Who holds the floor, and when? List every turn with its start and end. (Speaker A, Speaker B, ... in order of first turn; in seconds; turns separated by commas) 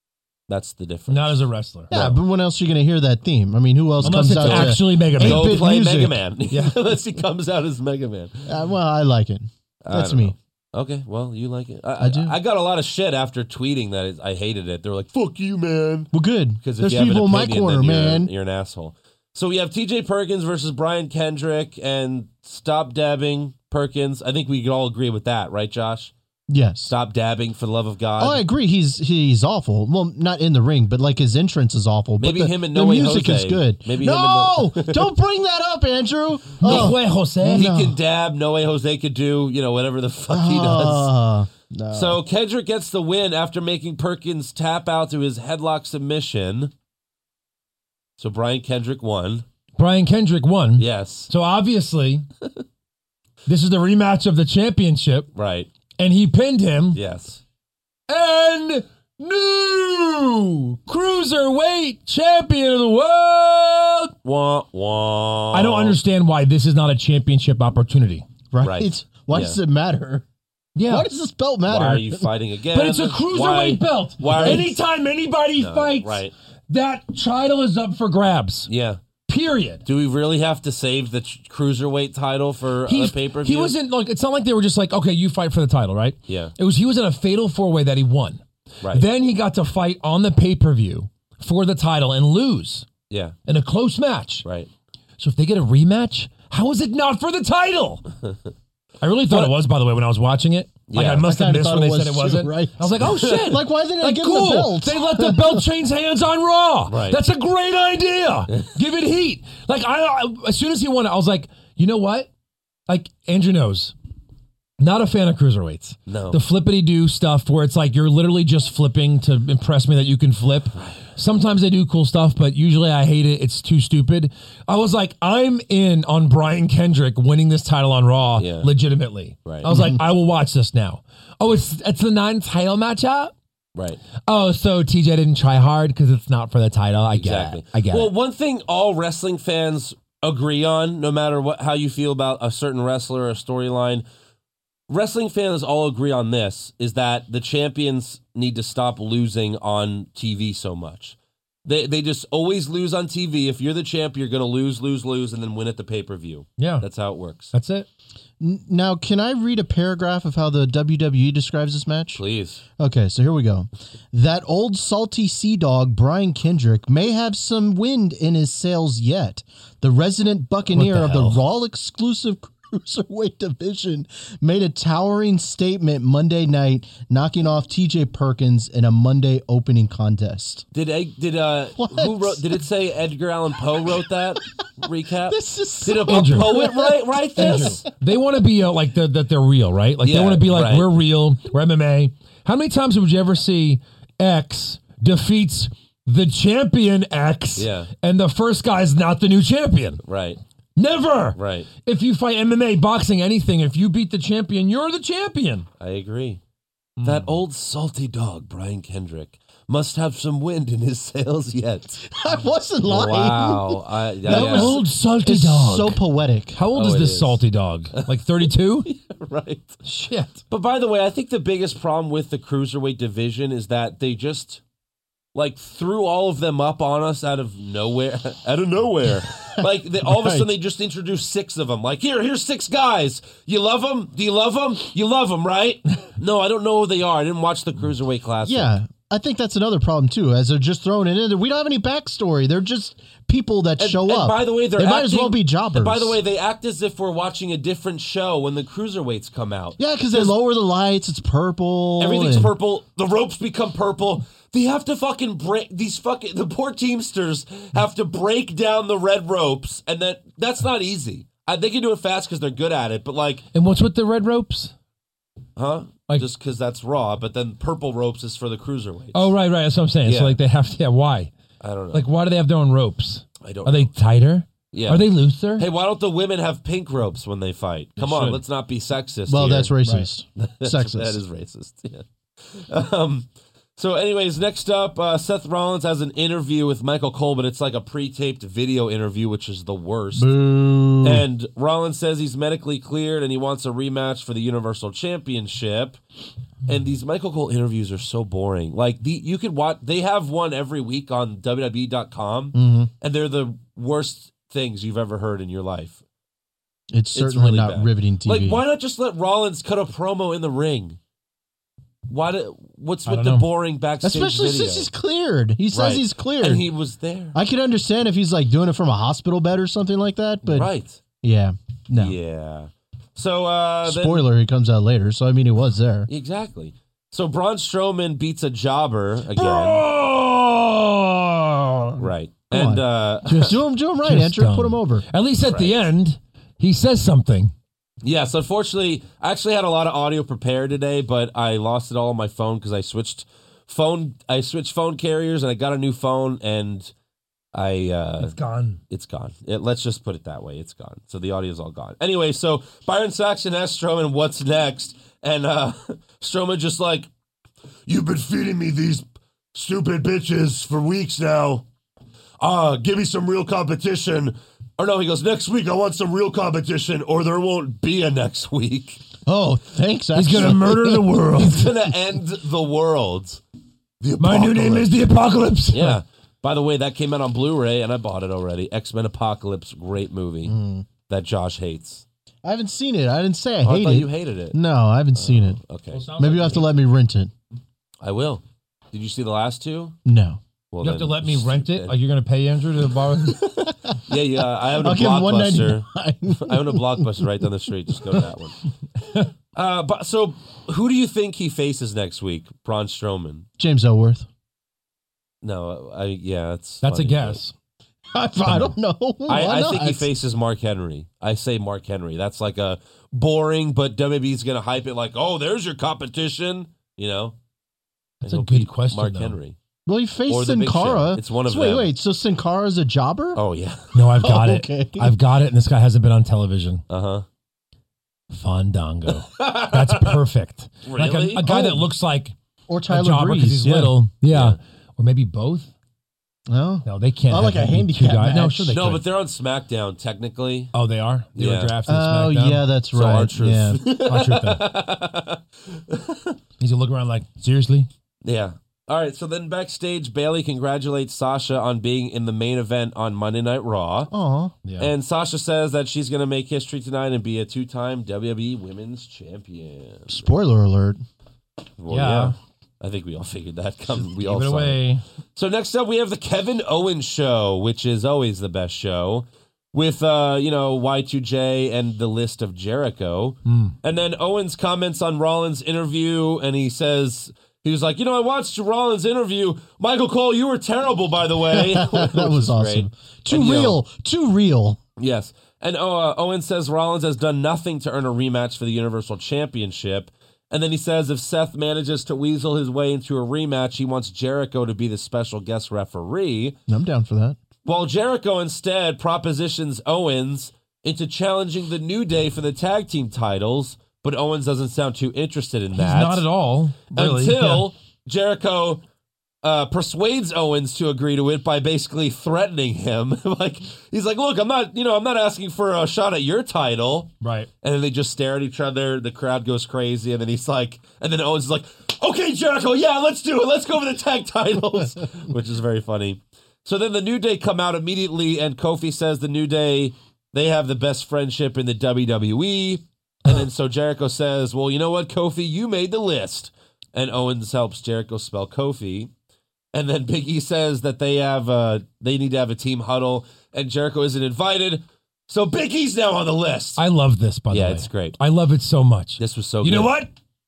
Speaker A: 0.5-1.4, Speaker B: 1.1-2.1, Speaker C: 1.9-6.2, Speaker B: 4.0-5.7, Speaker A: 4.4-8.5, Speaker B: 6.5-6.8, Speaker C: 8.4-10.3, Speaker A: 9.8-16.1, Speaker C: 12.0-12.3, Speaker C: 16.1-18.3, Speaker A: 16.6-26.1, Speaker C: 26.5-26.9, Speaker A: 26.9-28.4, Speaker C: 28.2-37.9, Speaker A: 32.2-35.1, Speaker B: 36.6-37.7, Speaker A: 36.6-36.9, Speaker A: 37.5-41.1, Speaker C: 40.3-42.2, Speaker A: 41.9-46.7, Speaker A: 48.2-49.5, Speaker B: 49.8-52.2, Speaker A: 50.8-51.3, Speaker B: 53.5-55.3, Speaker A: 55.3-55.7, Speaker B: 56.0-57.0, Speaker A: 56.9-57.4, Speaker B: 58.1-64.1, Speaker A: 64.2-66.0, Speaker B: 65.5-68.3, Speaker C: 68.5-70.2, Speaker A: 68.6-69.6, Speaker B: 70.8-71.1, Speaker C: 70.9-72.3, Speaker A: 71.7-74.8, Speaker B: 72.7-78.7, Speaker A: 75.6-76.3, Speaker A: 78.7-79.0, Speaker B: 79.3-79.8, Speaker A: 79.8-83.7, Speaker B: 82.9-92.9, Speaker A: 86.3-86.5, Speaker A: 88.8-89.1, Speaker A: 93.1-93.3, Speaker B: 93.5-94.4, Speaker A: 94.4-94.7, Speaker B: 95.2-98.0, Speaker B: 99.0-112.3, Speaker A: 100.9-101.2, Speaker C: 101.2-105.6, Speaker A: 106.9-107.2, Speaker B: 112.9-113.9, Speaker B: 114.8-133.3, Speaker A: 116.1-116.4, Speaker A: 128.4-128.7, Speaker A: 129.4-129.7, Speaker C: 129.7-130.0, Speaker A: 133.7-134.0, Speaker B: 134.2-138.1, Speaker A: 137.1-144.0, Speaker A: 144.9-157.5, Speaker B: 156.6-156.9, Speaker B: 157.5-157.9, Speaker C: 158.4-162.2, Speaker A: 162.1-162.6, Speaker C: 162.8-180.6, Speaker A: 170.8-171.4, Speaker A: 180.7-187.8, Speaker C: 181.8-182.5, Speaker C: 185.3-187.8, Speaker B: 185.9-186.7, Speaker B: 187.3-200.0, Speaker A: 190.0-190.9, Speaker A: 197.6-197.9, Speaker A: 200.0-200.4, Speaker B: 200.8-205.7, Speaker A: 201.3-201.7, Speaker A: 205.8-206.4, Speaker B: 207.0-207.3, Speaker A: 207.0-212.0, Speaker C: 212.0-216.6, Speaker A: 212.8-214.8, Speaker B: 214.2-216.0, Speaker B: 216.5-218.9, Speaker A: 216.7-217.4, Speaker A: 217.9-219.8, Speaker B: 219.8-220.4, Speaker A: 220.5-224.6, Speaker A: 225.3-238.7, Speaker C: 229.6-230.5, Speaker C: 238.4-246.2, Speaker A: 243.8-250.3, Speaker C: 249.8-252.5, Speaker A: 252.0-263.4, Speaker B: 263.5-264.7, Speaker A: 265.6-269.3, Speaker B: 269.1-271.3, Speaker A: 270.0-270.4, Speaker A: 271.6-272.1, Speaker B: 271.9-275.7, Speaker A: 273.4-273.9, Speaker A: 274.7-279.7, Speaker B: 278.0-278.4, Speaker C: 279.3-281.2, Speaker A: 280.4-290.3, Speaker C: 290.1-291.2, Speaker A: 291.0-296.0, Speaker A: 296.6-306.0, Speaker C: 302.5-302.9, Speaker C: 306.9-308.6, Speaker A: 307.1-311.0, Speaker A: 312.1-314.9, Speaker B: 313.1-313.5, Speaker C: 314.0-316.6, Speaker A: 315.7-317.4, Speaker C: 317.3-320.7, Speaker A: 320.5-321.0, Speaker C: 321.2-322.1, Speaker A: 321.9-324.3, Speaker C: 323.8-326.1, Speaker A: 326.1-329.8, Speaker B: 329.3-332.0, Speaker A: 332.0-333.6, Speaker C: 332.5-335.1, Speaker B: 334.0-337.5, Speaker A: 335.4-335.7, Speaker A: 338.0-346.9, Speaker A: 347.5-348.3, Speaker B: 348.2-348.8, Speaker A: 348.9-357.1, Speaker A: 357.9-361.6, Speaker A: 362.4-369.0, Speaker C: 369.2-371.2, Speaker B: 370.1-371.8, Speaker A: 371.3-373.4, Speaker A: 374.0-374.9, Speaker B: 374.2-376.0, Speaker A: 375.7-380.5, Speaker C: 380.4-380.9, Speaker A: 381.1-382.0, Speaker C: 382.4-385.6, Speaker A: 383.6-384.6, Speaker A: 385.1-386.0, Speaker B: 385.9-386.8, Speaker C: 386.2-387.3, Speaker A: 388.0-390.0, Speaker C: 390.0-390.4, Speaker A: 390.7-391.9, Speaker B: 390.8-393.5, Speaker C: 393.6-394.0, Speaker A: 393.9-398.6, Speaker C: 394.6-397.2, Speaker A: 399.5-403.4, Speaker C: 403.6-404.3, Speaker A: 405.4-407.4, Speaker B: 406.8-407.5, Speaker C: 408.1-410.1, Speaker B: 408.4-408.7, Speaker A: 409.2-417.4, Speaker A: 418.2-419.6, Speaker B: 418.2-419.4, Speaker C: 419.9-423.4, Speaker A: 420.3-421.9, Speaker A: 423.3-424.0, Speaker B: 423.9-426.8, Speaker C: 424.2-425.1, Speaker A: 426.9-427.2, Speaker B: 428.3-432.3, Speaker A: 429.2-430.2, Speaker A: 430.8-431.5, Speaker C: 431.4-431.8, Speaker C: 432.7-433.9, Speaker B: 432.9-435.7, Speaker A: 434.3-434.6, Speaker C: 436.5-438.9, Speaker B: 436.9-439.0, Speaker A: 438.7-440.7, Speaker B: 440.7-442.7, Speaker A: 441.3-441.7, Speaker C: 441.9-443.8, Speaker A: 442.9-446.4, Speaker B: 443.9-444.7, Speaker B: 446.6-447.9, Speaker A: 448.2-454.1, Speaker C: 454.1-454.5, Speaker B: 454.6-454.9, Speaker A: 454.8-460.3, Speaker C: 460.1-461.0, Speaker A: 461.8-464.8, Speaker B: 461.9-462.4, Speaker B: 464.2-465.0, Speaker A: 465.4-483.8, Speaker B: 473.4-473.7, Speaker C: 481.5-484.8, Speaker A: 485.0-496.6, Speaker C: 496.7-497.4, Speaker A: 497.6-506.2, Speaker B: 505.7-507.7, Speaker A: 506.9-508.8, Speaker A: 509.4-539.1, Speaker B: 517.2-517.5, Speaker A: 539.7-546.8, Speaker B: 546.8-550.1, Speaker A: 547.5-548.2, Speaker A: 549.2-549.9